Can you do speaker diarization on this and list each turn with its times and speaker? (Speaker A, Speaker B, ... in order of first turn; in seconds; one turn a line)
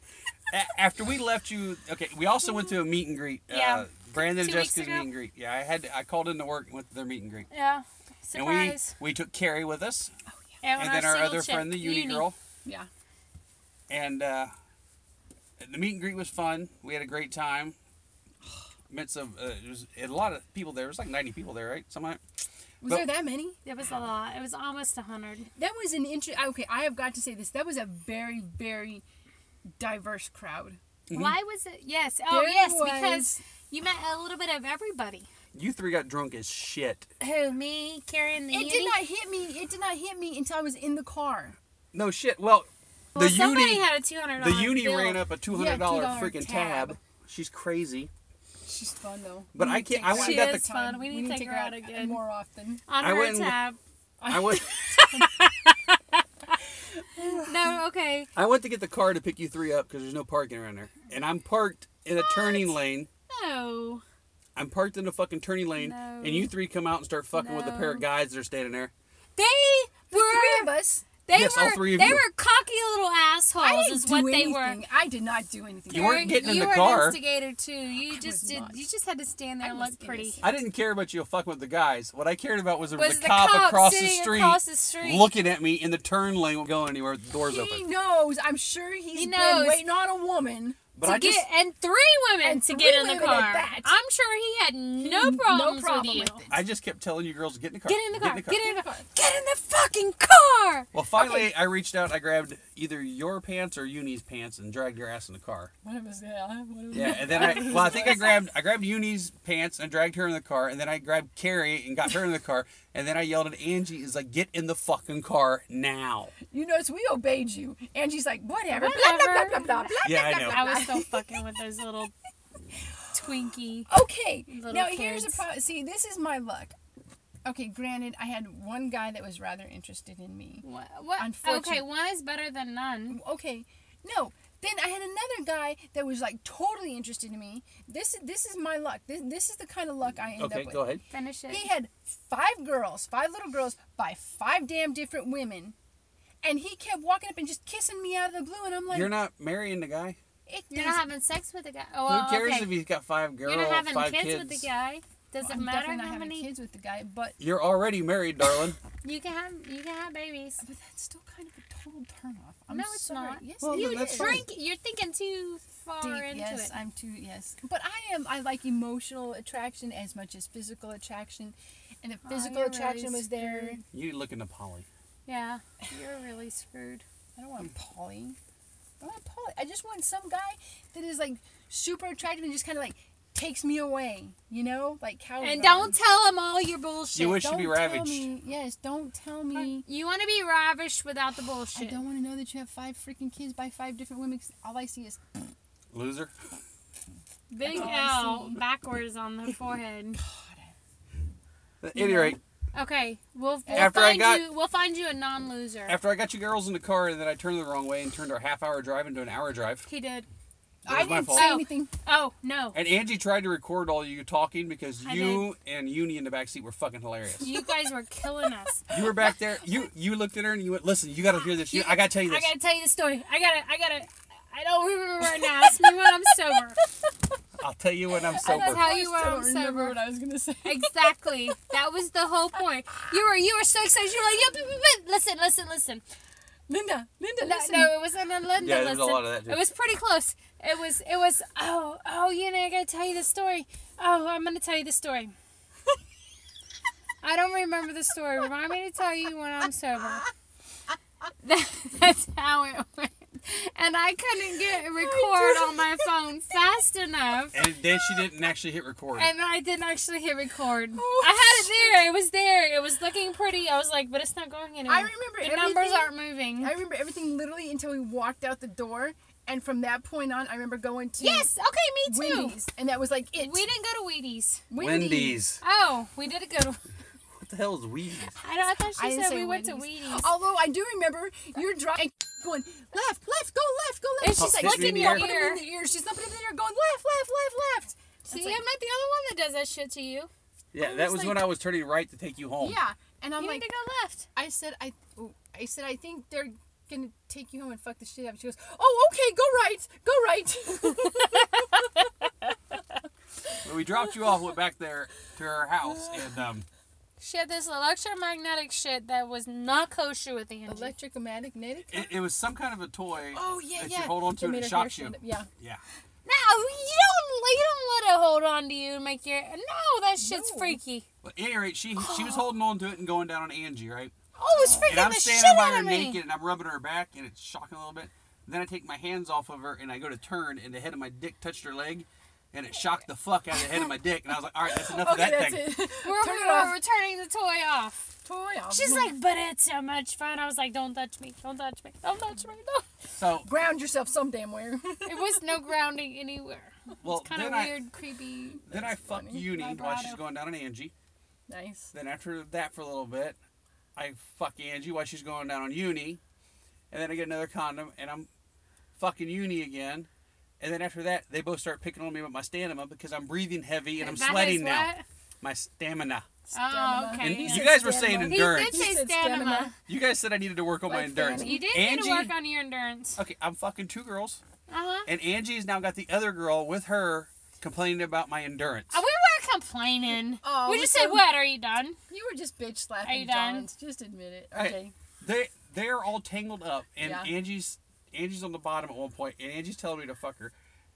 Speaker A: 0.5-7.5
Speaker B: 3.5-5.1
Speaker B: 7.5-8.9
Speaker A: 8.3-10.1
Speaker B: 10.6-12.3
Speaker A: 10.8-12.4
Speaker A: 13.9-14.5
Speaker A: 15.6-17.8
Speaker A: 18.9-22.2
Speaker C: 22.8-23.6
Speaker A: 22.8-23.1
Speaker B: 23.6-25.5
Speaker C: 25.6-29.0
Speaker C: 29.8-30.8
Speaker A: 31.1-31.4
Speaker B: 31.1-35.3
Speaker C: 32.3-33.4
Speaker A: 35.5-37.1
Speaker B: 37.2-39.0
Speaker C: 38.5-41.6
Speaker A: 41.9-48.1
Speaker B: 43.1-45.2
Speaker C: 45.5-47.0
Speaker C: 48.6-52.8
Speaker A: 49.5-50.6
Speaker B: 50.0-52.2
Speaker B: 52.9-53.8
Speaker A: 53.0-53.6
Speaker C: 54.2-55.4
Speaker A: 54.3-54.7
Speaker B: 54.9-56.2
Speaker C: 57.2-57.5
Speaker B: 57.4-58.3
Speaker A: 58.3-63.1
Speaker B: 62.1-64.0
Speaker A: 64.5-68.9
Speaker B: 65.8-66.5
Speaker B: 67.3-68.0
Speaker B: 69.3-70.7
Speaker C: 70.1-71.1
Speaker B: 71.2-74.8
Speaker A: 71.3-72.2
Speaker C: 73.6-76.7
Speaker A: 75.9-77.2
Speaker B: 75.9-80.4
Speaker C: 78.0-78.8
Speaker C: 79.6-80.6
Speaker A: 80.4-87.8
Speaker B: 83.0-85.3
Speaker C: 87.4-90.9
Speaker B: 89.1-89.8
Speaker A: 90.9-91.4
Speaker B: 91.0-96.4
Speaker C: 92.4-93.9
Speaker C: 95.0-96.6
Speaker A: 96.5-98.6
Speaker B: 97.9-101.2
Speaker C: 98.5-99.1
Speaker A: 100.9-105.7
Speaker C: 105.8-108.4
Speaker A: 106.9-116.3
Speaker B: 106.9-108.4
Speaker C: 116.5-121.3
Speaker B: 118.7-122.1
Speaker A: 120.0-120.7
Speaker B: 123.1-123.9
Speaker C: 123.9-126.7
Speaker B: 124.5-125.4
Speaker C: 127.4-130.6
Speaker B: 130.6-133.2
Speaker C: 131.2-131.9
Speaker C: 133.1-140.9
Speaker A: 140.4-141.0
Speaker B: 141.1-141.7
Speaker C: 141.5-145.7
Speaker C: 146.4-149.1
Speaker A: 148.9-150.2
Speaker C: 150.5-151.1
Speaker B: 150.7-152.8
Speaker A: 152.1-154.7
Speaker B: 153.4-156.5
Speaker C: 155.4-157.4
Speaker A: 157.4-158.8
Speaker B: 159.0-160.6
Speaker C: 160.6-164.4
Speaker B: 162.7-166.8
Speaker A: 163.6-164.4
Speaker C: 166.0-173.8
Speaker B: 172.2-173.8
Speaker A: 173.9-174.9
Speaker B: 175.2-177.0
Speaker C: 177.3-178.4
Speaker C: 179.0-186.0
Speaker B: 185.4-187.4
Speaker A: 187.1-188.3
Speaker C: 187.3-189.8
Speaker B: 189.5-192.0
Speaker C: 191.7-195.2
Speaker A: 195.9-196.3
Speaker B: 197.5-200.2
Speaker C: 197.6-198.6
Speaker C: 200.2-200.7
Speaker A: 201.8-202.4
Speaker C: 201.9-202.3
Speaker B: 202.3-206.0
Speaker C: 203.7-204.1
Speaker A: 203.7-204.4
Speaker A: 205.9-209.8
Speaker B: 209.8-210.3
Speaker C: 210.8-211.9
Speaker A: 210.8-211.5
Speaker B: 210.9-212.8
Speaker A: 212.7-217.5
Speaker B: 215.0-215.5
Speaker B: 217.4-219.0
Speaker A: 218.9-222.5
Speaker B: 221.6-226.8
Speaker C: 225.2-226.9
Speaker A: 227.6-228.8
Speaker C: 228.1-231.6
Speaker B: 228.4-230.1
Speaker B: 230.6-236.0
Speaker C: 236.7-237.9
Speaker B: 237.4-245.3
Speaker A: 238.6-239.7
Speaker B: 247.2-250.3
Speaker B: 251.4-257.6
Speaker C: 254.8-256.1
Speaker A: 257.5-259.3
Speaker B: 259.1-266.7
Speaker C: 260.9-262.0
Speaker C: 264.9-271.5
Speaker B: 271.2-272.6
Speaker C: 272.0-273.6
Speaker B: 273.4-274.6
Speaker C: 274.7-275.4
Speaker A: 274.8-275.6
Speaker B: 275.6-276.8
Speaker A: 277.3-278.4
Speaker B: 278.4-280.3
Speaker C: 278.9-288.6
Speaker B: 284.2-285.6
Speaker A: 284.3-285.3
Speaker B: 288.3-290.3
Speaker A: 290.7-292.8
Speaker C: 290.8-291.4
Speaker C: 292.6-293.7
Speaker B: 293.4-294.3
Speaker C: 294.3-302.1
Speaker B: 301.0-302.0
Speaker A: 303.6-306.6
Speaker B: 307.2-310.9
Speaker C: 310.7-312.1
Speaker A: 311.9-315.8
Speaker C: 313.3-315.5
Speaker B: 316.2-321.1
Speaker C: 320.2-320.8
Speaker A: 321.2-324.1
Speaker B: 322.0-322.4
Speaker C: 324.4-325.0
Speaker B: 324.4-326.2
Speaker A: 324.9-335.7
Speaker C: 334.6-336.8
Speaker B: 335.9-338.2
Speaker C: 338.2-339.1
Speaker B: 338.7-342.9
Speaker A: 343.1-343.5
Speaker C: 343.4-345.6
Speaker B: 345.0-348.6
Speaker A: 347.0-347.8
Speaker C: 348.6-349.4
Speaker A: 348.7-350.9
Speaker B: 349.4-350.2
Speaker C: 351.5-351.9
Speaker A: 351.9-353.4
Speaker A: 353.9-356.2
Speaker A: 356.9-358.3
Speaker A: 358.9-360.1
Speaker A: 360.6-364.9
Speaker B: 364.0-365.0
Speaker A: 365.4-366.3
Speaker B: 366.5-367.7
Speaker C: 366.5-369.7
Speaker A: 367.2-368.9
Speaker B: 368.3-369.7
Speaker A: 369.9-372.3
Speaker C: 370.9-371.7
Speaker B: 371.4-373.2
Speaker A: 373.2-374.4
Speaker B: 374.7-375.1
Speaker A: 375.1-379.0
Speaker B: 378.9-382.0
Speaker C: 380.4-381.3
Speaker C: 382.1-384.9
Speaker B: 383.0-383.7
Speaker A: 384.5-390.5
Speaker C: 387.0-387.3